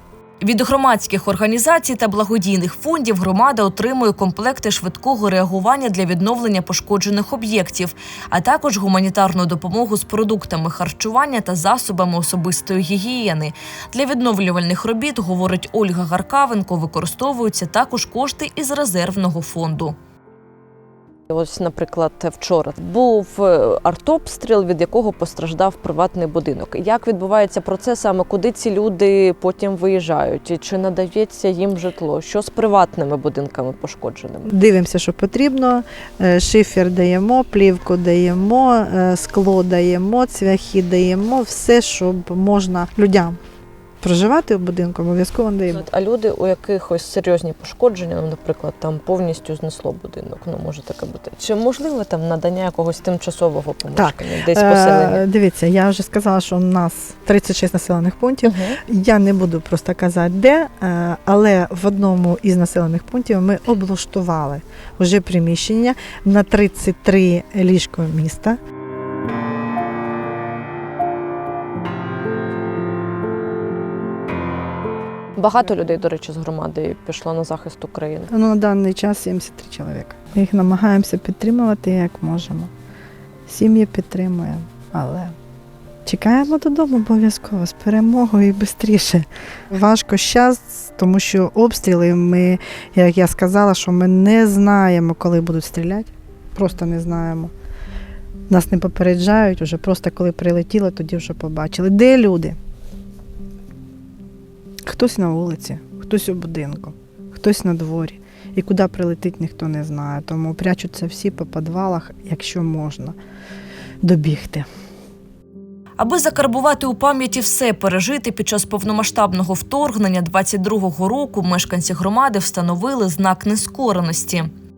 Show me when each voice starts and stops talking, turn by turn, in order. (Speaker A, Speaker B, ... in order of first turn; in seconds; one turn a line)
Speaker A: 0.4-19.9
Speaker B: 21.3-34.5
Speaker C: 34.5-43.4
Speaker C: 44.0-45.9
Speaker B: 45.7-55.2
Speaker C: 54.0-68.6
Speaker B: 58.4-58.8
Speaker B: 75.4-78.3
Speaker C: 78.3-82.7
Speaker C: 83.5-85.3
Speaker C: 86.0-97.5
Speaker C: 98.5-102.6
Speaker C: 104.8-113.2
Speaker C: 114.0-114.7
Speaker A: 116.0-124.5